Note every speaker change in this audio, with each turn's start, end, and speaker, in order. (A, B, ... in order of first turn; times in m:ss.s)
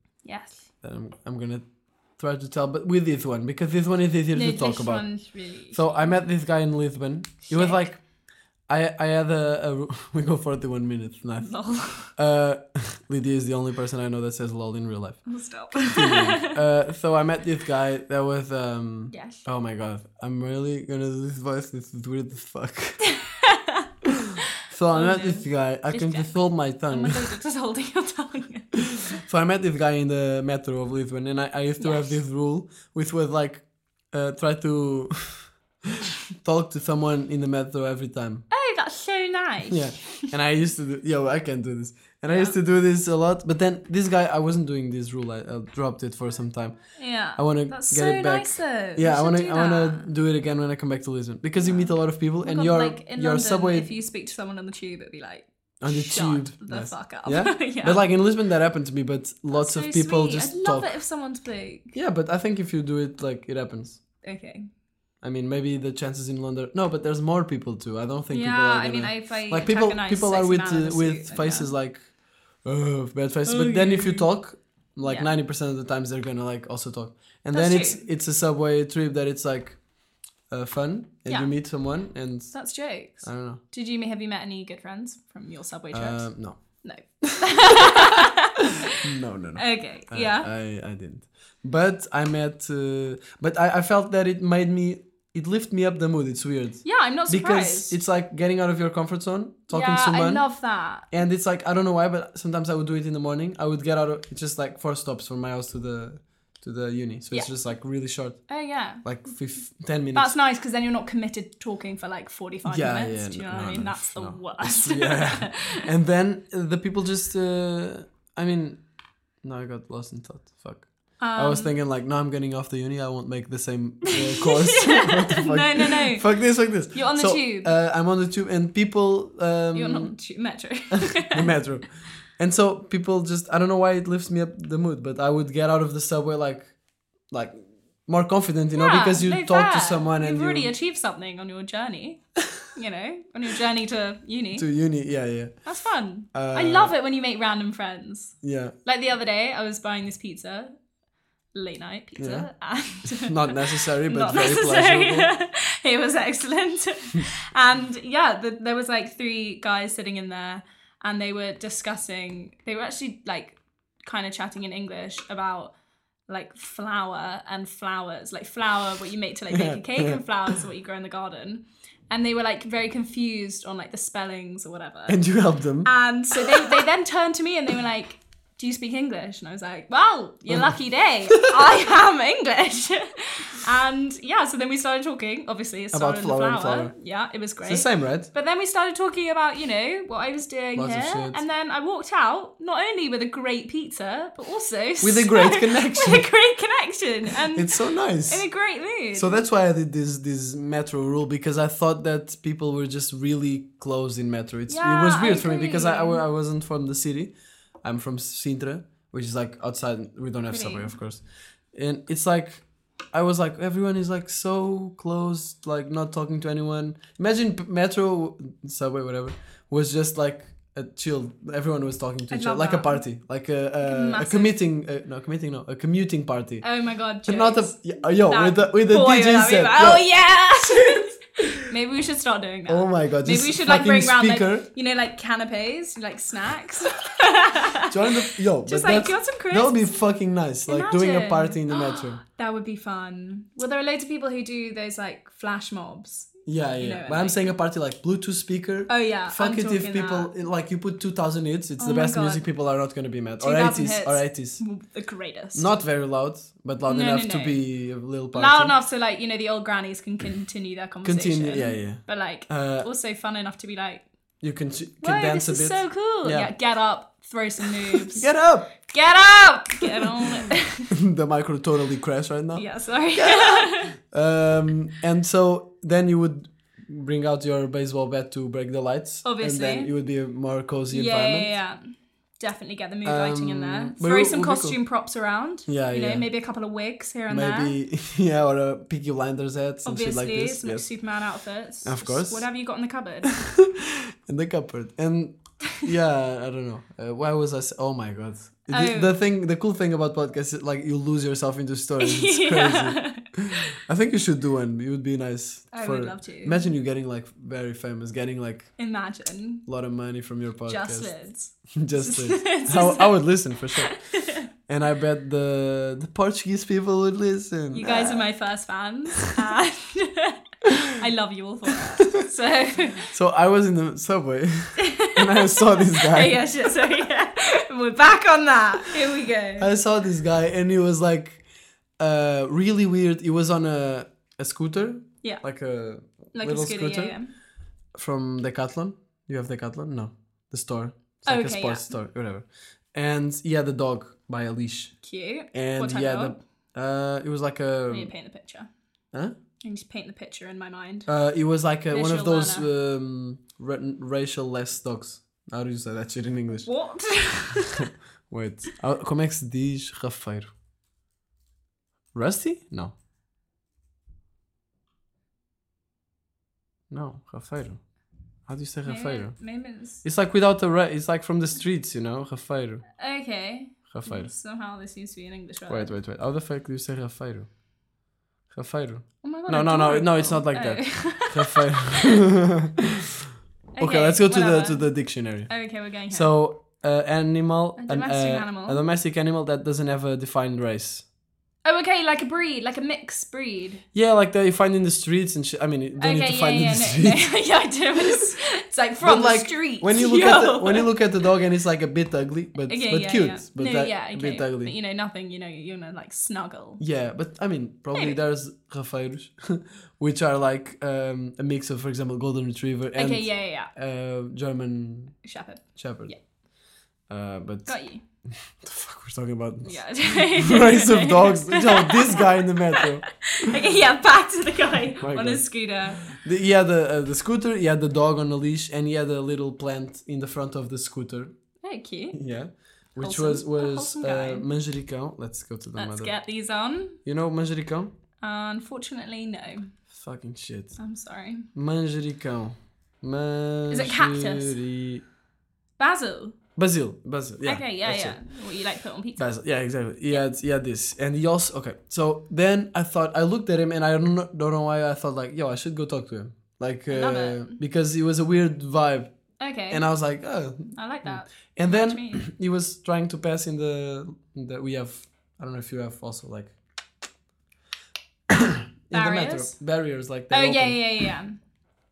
0:00.2-0:00.6 A
0:00.8-0:05.2 B
0:04.3-0:06.1 A
0:05.7-0:08.0 B
0:07.5-0:07.8 A
0:08.7-0:23.0 B
0:11.4-0:12.1 A
0:15.2-0:16.6 A
0:19.1-0:19.4 A
0:23.0-0:23.9 A
0:24.6-0:27.2 B
0:24.9-0:26.3 A
0:26.9-0:29.2 A
0:29.0-0:38.4 B
0:31.8-0:32.1 A
0:38.5-0:40.3 A
0:39.7-0:46.8 B
0:42.3-0:42.6 A
0:46.9-0:50.1 A
0:47.3-0:53.9 B
0:51.6-0:58.0 A
0:55.8-1:00.9 B
0:59.5-1:02.0 A
1:01.9-1:04.0 B
1:04.2-1:04.7 A
1:05.2-1:12.1 B
1:08.3-1:11.7 A
1:12.6-1:19.8 B
1:13.4-1:14.3 A
1:15.0-1:15.3 A
1:17.5-1:18.0 A
1:20.5-1:22.7 B
1:22.5-1:28.7 A
1:23.2-1:23.6 B
1:25.9-1:27.7 B
1:29.0-1:40.5 B
1:29.6-1:30.5 A
1:36.8-1:38.0 A
1:39.7-1:41.1 A
1:41.1-1:50.3 B
1:47.3-1:47.6 A
1:48.5-1:49.0 A
1:50.1-1:55.8 A
1:52.6-1:58.8 B
1:59.4-2:10.2 B
2:01.2-2:01.7 A
2:04.3-2:06.3 A
2:06.9-2:07.7 A
2:09.7-2:11.5 A
2:11.2-2:16.7 B
2:17.3-2:20.7 B
2:18.7-2:24.7 A
2:24.6-2:25.6 B
2:25.6-2:30.7 A
2:26.3-2:26.9 B
2:28.4-2:28.7 B
2:31.5-2:45.7 A
2:32.2-2:32.5 B
2:33.0-2:35.3 B
2:46.3-2:55.2 A
2:49.5-2:50.2 B
2:55.1-2:55.9 B
2:55.8-3:19.4 A
2:56.4-2:56.7 B
3:00.5-3:00.7 B
3:05.9-3:06.9 B
3:07.7-3:08.3 B
3:10.7-3:11.4 B
3:15.0-3:16.2 B
3:17.5-3:18.4 B
3:19.1-3:46.6 B
3:24.7-3:26.2 A
3:30.5-3:30.9 A
3:42.3-3:43.0 A
3:43.8-3:44.5 A
3:46.6-4:00.0 A
3:47.2-3:50.1 B
3:50.9-3:51.6 B
3:52.7-3:54.6 B
3:57.9-4:02.2 B
4:00.6-4:07.5 A
4:06.4-4:14.6 B
4:08.9-4:10.3 A
4:11.8-4:12.4 A
4:13.4-4:15.7 A
4:15.5-4:18.7 B
4:16.9-4:17.6 A
4:18.3-4:24.0 A
4:21.0-4:22.9 B
4:24.4-4:26.5 B
4:25.0-4:28.3 A
4:27.9-4:28.7 B
4:28.8-4:30.9 A
4:30.9-4:41.5 B
4:32.6-4:34.0 A
4:39.2-4:39.9 A
4:40.9-4:47.8 A
4:43.0-4:44.8 B
4:45.7-4:46.3 B
4:47.3-4:50.9 B
4:49.8-4:53.4 A
4:51.8-4:52.5 B
4:53.3-5:08.8 B
4:58.7-4:59.1 A
5:02.0-5:03.2 A
5:05.7-5:06.6 A
5:08.8-5:09.7 A
5:09.6-5:14.0 B
5:10.7-5:14.5 A
5:14.6-5:18.3 B
5:17.7-5:23.1 A
5:23.1-5:26.7 B
5:24.8-5:29.7 A
5:29.6-5:31.4 B
5:32.0-5:37.2 B
5:36.3-5:37.3 A
5:37.9-5:45.0 B
5:41.2-5:41.8 A
5:45.0-5:46.4 A
5:45.5-5:48.1 B
5:47.9-5:48.7 A
5:49.6-5:51.1 A
5:51.1-5:56.7 B
5:51.9-5:52.7 A
5:56.6-5:57.9 A
5:58.3-6:00.5 B
6:02.1-6:02.9 B
6:06.9-6:07.8 B
6:08.5-6:12.8 B
6:08.8-6:10.0 A
6:13.0-6:15.9 A
6:13.9-6:14.3 B
6:15.7-6:17.5 B
6:18.5-6:22.9 B
6:19.2-6:22.1 A
6:23.7-6:26.3 A
6:23.8-6:31.0 B
6:27.8-6:28.8 A
6:31.6-6:33.8 A
6:33.9-6:37.3 B
6:36.0-6:40.9 A
6:39.0-6:44.7 B
6:42.7-6:46.8 A
6:46.8-6:55.2 B
6:53.0-6:53.7 A
6:55.2-6:56.2 A
6:55.8-6:56.1 B
6:57.1-6:57.8 B
6:57.6-6:58.0 A
6:58.3-7:03.1 B
6:59.6-7:06.1 A
7:05.0-7:05.5 B
7:06.0-7:11.3 B
7:11.6-7:12.2 A
7:12.1-7:16.1 B
7:13.0-7:14.4 A
7:15.8-7:17.0 A
7:17.0-7:17.9 B
7:18.2-7:19.7 A
7:19.9-7:20.8 B
7:20.8-7:21.5 A
7:21.5-7:25.0 B
7:23.7-7:24.6 A
7:25.8-7:26.4 A
7:26.6-7:28.2 B
7:27.4-7:29.3 A
7:29.2-7:46.6 B
7:36.9-7:37.6 A
7:39.4-7:39.8 A
7:40.7-7:42.3 A
7:48.3-7:51.1 B
7:48.9-7:49.6 A
7:50.3-7:51.4 A